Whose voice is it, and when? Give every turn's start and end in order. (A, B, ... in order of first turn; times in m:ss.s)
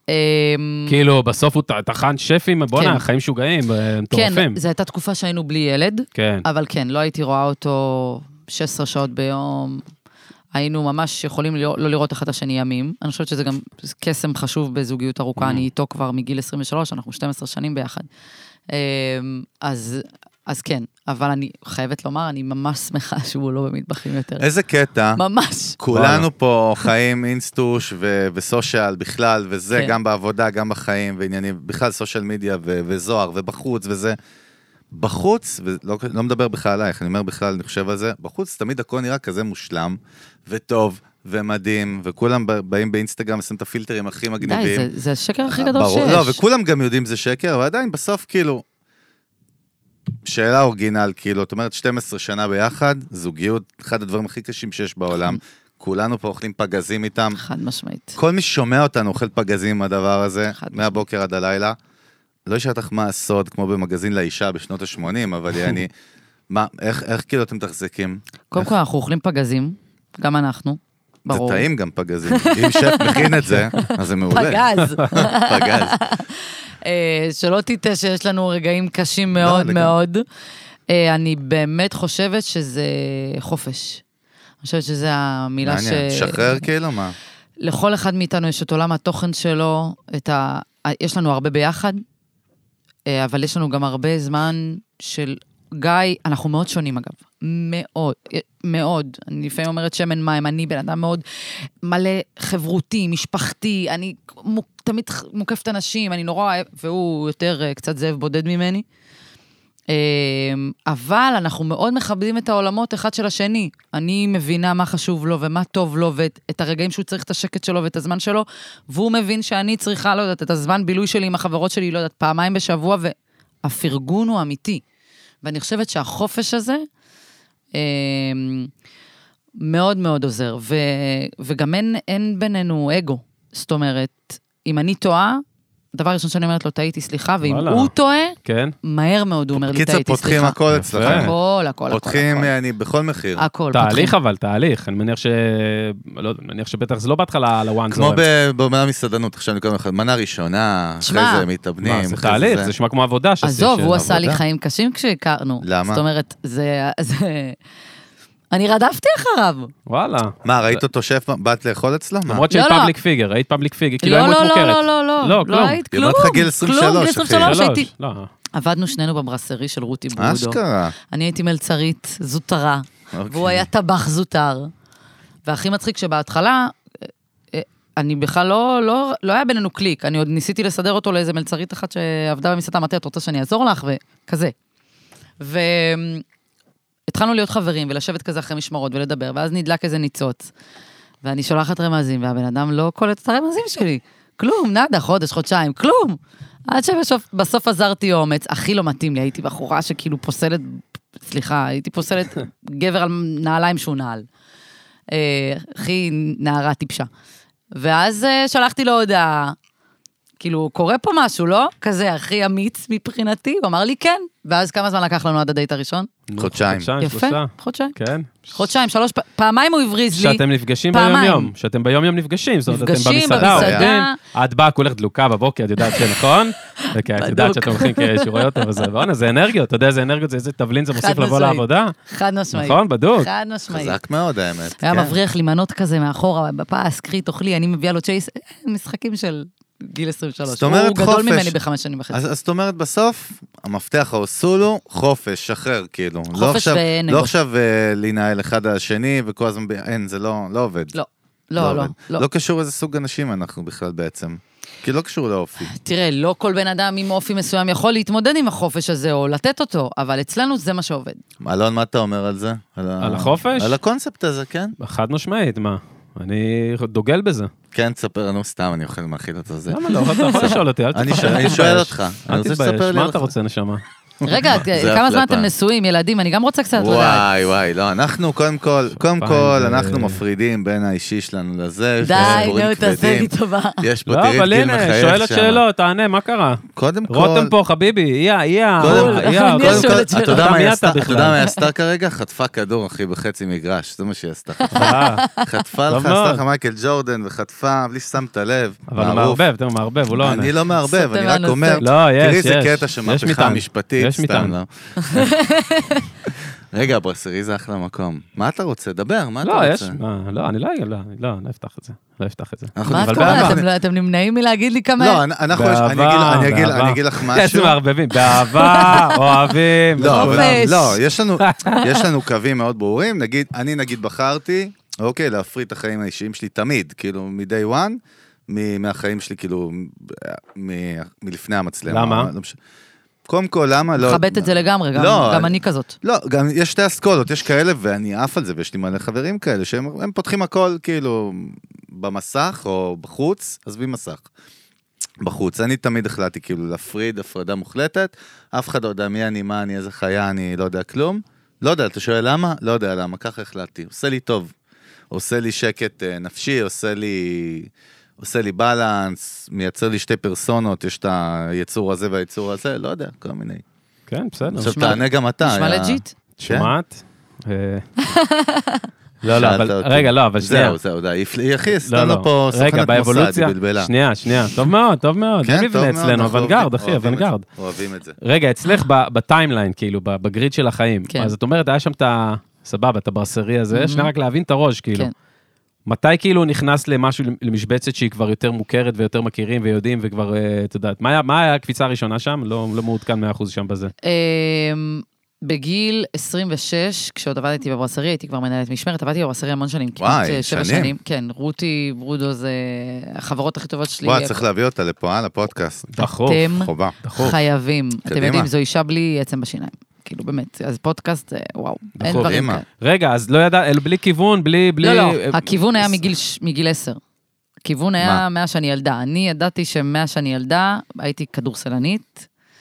0:00.1-0:01.0 A
0:00.9-0:04.6 B
0:02.8-0:03.1 A
0:04.1-0:09.8 A
0:06.2-0:06.4 B
0:10.6-0:18.1 A
0:18.7-0:24.5 A
0:24.4-0:25.2 C
0:25.2-0:25.8 A
0:25.8-0:34.2 C
0:25.9-0:26.2 B
0:34.9-0:44.9 C
0:44.4-0:46.4 A
0:45.5-0:48.6 C
0:50.2-0:57.4 C
0:57.4-0:58.2 A
0:58.2-1:01.8 C
1:00.5-1:01.0 A
1:02.5-1:05.9 C
1:06.5-1:08.7 C
1:08.5-1:11.7 A
1:11.3-1:16.0 C
1:12.3-1:20.2 A
1:19.4-1:19.9 C
1:20.9-1:24.0 A
1:24.6-1:26.7 A
1:25.6-1:27.2 C
1:27.6-1:32.0 A
1:33.1-1:48.8 A
1:49.9-2:04.8 A
2:05.4-2:06.9 A
2:07.8-2:08.7 A
2:09.6-2:15.4 A
2:15.9-2:22.5 A
2:17.4-2:17.9 B
2:18.4-2:18.8 B
2:19.6-2:21.4 C
2:20.7-2:21.3 B
2:21.9-2:23.4 C
2:23.4-2:24.2 A
2:23.7-2:28.2 B
2:27.9-2:32.7 C
2:31.0-2:31.5 A
2:31.8-2:34.0 B
2:33.4-2:37.6 A
2:33.9-2:34.4 C
2:35.6-2:36.0 C
2:38.5-2:39.7 A
2:39.9-2:40.8 B
2:40.4-2:42.4 C
2:42.3-2:45.8 B
2:42.5-2:42.9 A
2:44.0-2:47.9 A
2:45.9-2:47.6 C
2:47.4-2:48.3 B
2:48.5-2:54.7 A
2:50.2-2:50.9 C
2:53.1-2:53.7 C
2:55.5-3:04.5 A
3:05.4-3:06.2 A
3:07.1-3:10.5 A
3:11.2-3:24.3 A
3:25.1-3:27.1 A
3:27.8-3:29.6 A
3:30.4-3:36.1 A
3:36.3-3:38.5 B
3:36.4-3:36.9 C
3:37.0-3:38.0 A
3:38.5-3:41.5 A
3:40.1-3:52.0 B
3:42.7-3:44.2 A
3:43.4-3:43.9 C
3:45.8-3:46.3 A
3:46.8-3:48.9 A
3:51.0-3:54.0 A
3:52.5-3:53.3 B
3:53.7-3:55.2 C
3:54.8-4:02.2 A
4:00.5-4:01.6 C
4:02.1-4:10.9 C
4:06.3-4:07.3 A
4:10.9-4:12.3 A
4:11.6-4:15.7 C
4:15.7-4:21.2 A
4:21.4-4:24.8 C
4:23.0-4:23.8 B
4:24.8-4:27.5 B
4:27.7-4:33.3 C
4:29.7-4:33.8 B
4:29.9-4:30.5 A
4:31.2-4:31.5 A
4:34.2-4:35.5 C
4:34.2-4:37.3 A
4:36.8-4:45.6 C
4:39.1-4:40.2 B
4:42.0-4:43.8 A
4:42.2-4:42.5 B
4:44.1-4:51.4 B
4:46.7-4:47.5 C
4:48.8-4:59.4 C
4:48.8-4:50.6 A
4:54.6-4:55.5 A
4:54.7-4:55.2 B
4:55.9-4:56.4 B
4:58.9-5:00.5 B
5:00.1-5:05.3 C
5:00.8-5:01.9 A
5:01.8-5:04.6 B
5:05.0-5:06.1 A
5:06.7-5:10.0 C
5:09.4-5:13.6 B
5:12.8-5:13.6 C
5:12.9-5:15.2 A
5:15.0-5:17.8 C
5:15.5-5:20.8 B
5:18.3-5:19.4 A
5:20.0-5:32.6 C
5:20.0-5:21.0 A
5:21.4-5:22.0 B
5:31.9-5:32.3 B
5:33.3-5:44.3 C
5:34.0-5:36.0 A
5:45.2-5:54.5 C
5:55.1-6:03.6 C
6:04.1-6:04.8 B
6:04.5-6:06.7 C
6:04.7-6:06.1 A
6:06.4-6:07.9 B
6:08.0-6:08.9 A
6:09.2-6:10.8 B
6:09.3-6:13.9 C
6:11.8-6:17.5 B
6:15.4-6:18.2 C
6:18.2-6:25.1 B
6:21.1-6:21.3 A
6:23.7-6:24.1 A
6:25.9-6:33.9 B
6:34.0-6:44.4 A
6:40.0-6:41.0 C
6:44.0-6:45.9 C
6:45.9-6:46.5 B
6:46.0-6:52.6 A
6:46.5-6:47.0 C
6:47.0-6:47.4 B
6:48.1-6:48.5 C
6:52.0-6:55.5 B
6:52.1-6:52.6 C
6:54.8-6:57.0 A
6:57.6-7:02.3 A